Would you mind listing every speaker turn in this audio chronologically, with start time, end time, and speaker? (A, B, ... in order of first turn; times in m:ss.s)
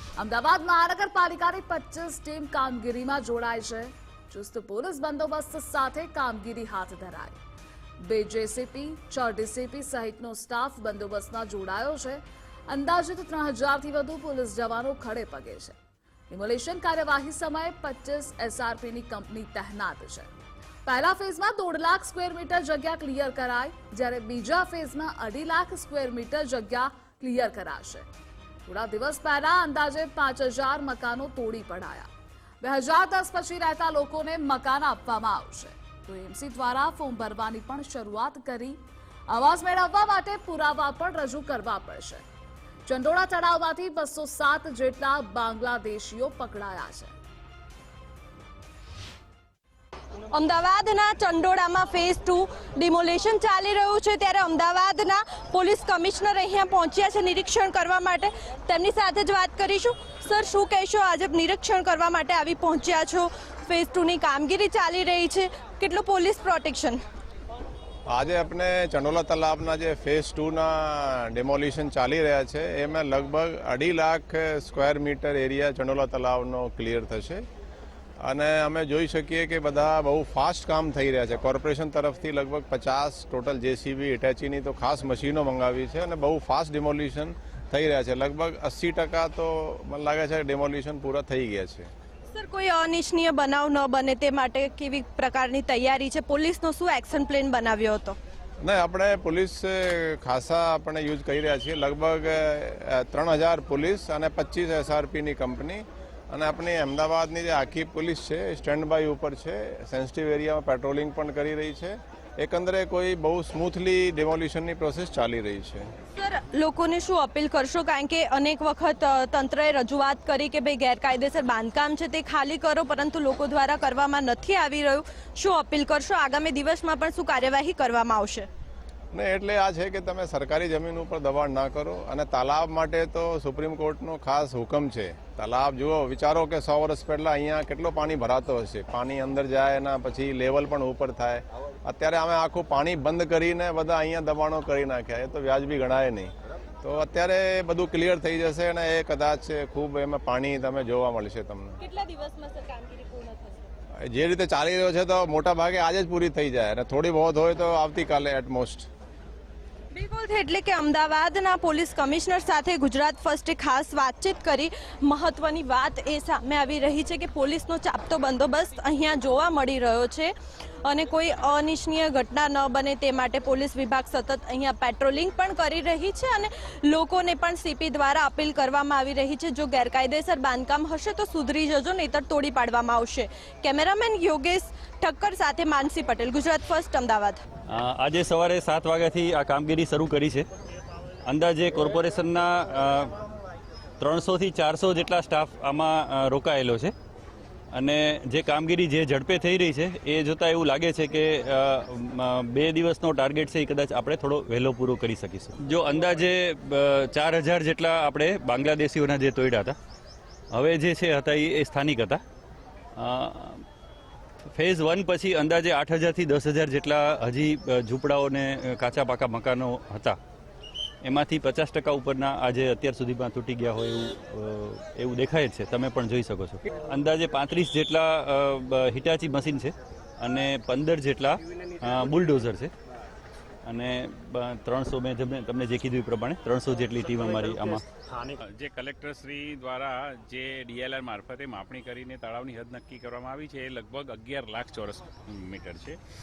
0:00.2-0:07.4 A
0:08.0-0:15.7 A
0:16.3-0:20.3 A
0:20.8-0:28.0 A
0:28.6-0:32.1 A
0:32.6-0:42.2 A
0:42.8-0:47.1 A
0:50.3-1:07.0 B
1:08.1-1:17.4 C
1:18.2-1:31.9 C
1:32.3-1:38.2 B
1:38.6-1:55.9 C
1:56.1-2:08.5 B
2:09.1-2:26.3 C
2:26.8-2:31.8 C
2:31.8-2:33.7 B
2:34.0-2:38.9 C
2:39.9-2:50.3 B
2:50.8-3:07.4 B
3:07.7-3:10.4 D
3:11.2-3:13.1 D
3:14.0-3:16.9 D
3:17.7-3:29.8 D
3:30.5-3:32.2 D
3:33.0-3:33.6 D
3:34.5-3:40.2 D
3:41.0-3:52.7 D
3:53.6-3:57.8 D
3:58.4-4:06.0 E